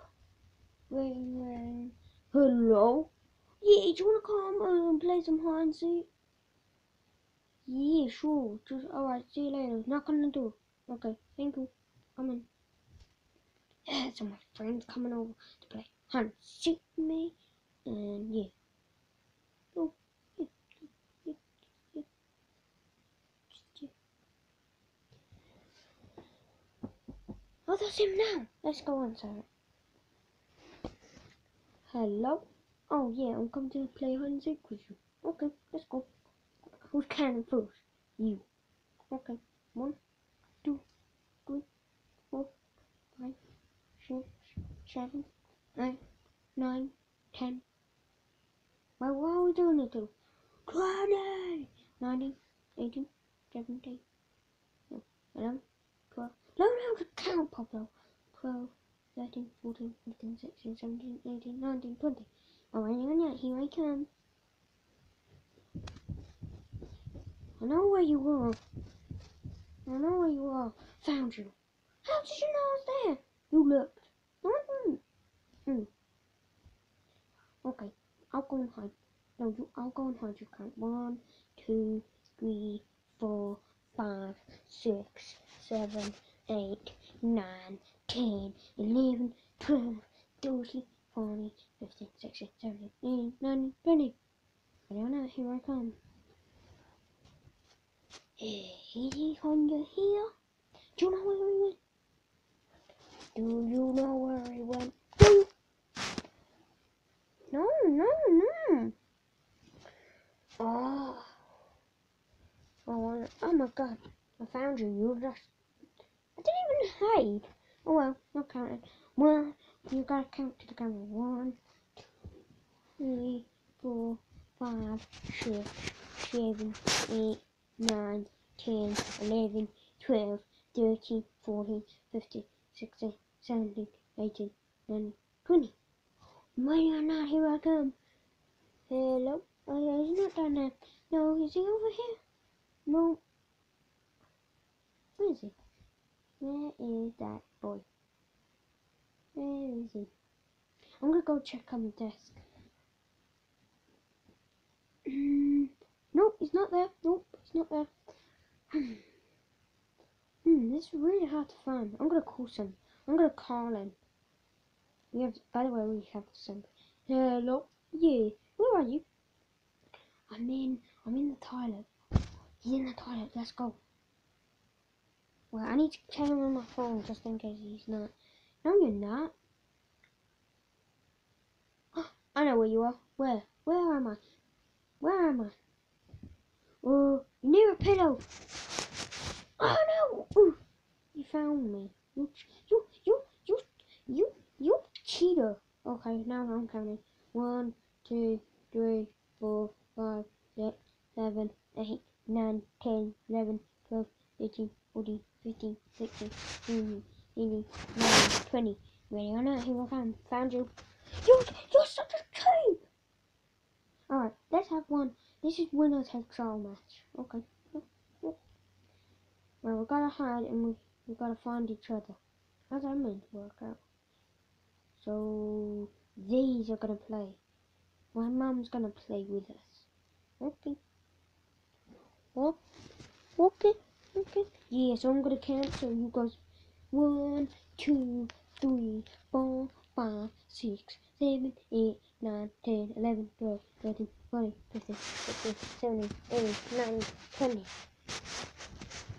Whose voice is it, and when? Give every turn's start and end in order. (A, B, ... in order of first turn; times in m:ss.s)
0:00.9-0:06.1 A
0:07.7-0:12.5 A
0:13.9-0:17.4 A
0:17.9-0:18.5 A
0:19.7-0:22.1 A
0:23.5-0:23.9 A
0:27.7-0:29.5 A
0:31.9-0:36.1 A
0:36.8-0:38.5 A
0:39.1-0:40.0 A
0:44.0-0:46.0 A
0:46.6-0:47.6 A
0:49.0-0:50.1 A
0:50.7-0:54.0 A
0:54.9-1:04.1 A
1:07.6-1:08.6 A
1:09.9-1:15.0 A
1:17.6-1:34.2 A
1:34.9-1:36.0 A
1:38.4-1:40.4 A
1:41.0-1:41.8 A
1:43.4-1:45.5 A
1:47.5-1:49.0 A
1:50.6-1:51.3 A
1:52.9-1:55.5 A
1:56.4-2:01.6 A
2:03.0-2:15.8 A
2:16.6-2:18.0 A
2:18.9-2:22.2 A
2:22.9-2:23.2 A
2:25.2-2:25.6 A
2:26.4-2:27.9 A
2:29.4-2:30.1 A
2:31.0-2:32.4 A
2:35.1-2:37.9 A
2:38.7-2:39.0 A
2:40.4-2:44.0 A
2:45.1-2:49.0 A
2:50.3-2:51.9 A
2:52.6-2:53.8 A
2:55.5-2:58.1 A
2:58.6-2:59.4 A
3:01.9-3:04.2 A
3:05.0-3:05.6 A
3:06.8-3:08.2 A
3:09.6-3:10.6 A
3:11.1-3:30.7 A
3:31.2-3:32.8 A
3:34.1-3:38.4 A
3:39.6-3:42.2 A
3:42.7-3:43.8 A
3:45.0-3:47.4 A
3:48.1-3:49.9 A
3:50.4-3:50.8 A
3:53.4-3:56.4 A
3:56.9-4:07.7 A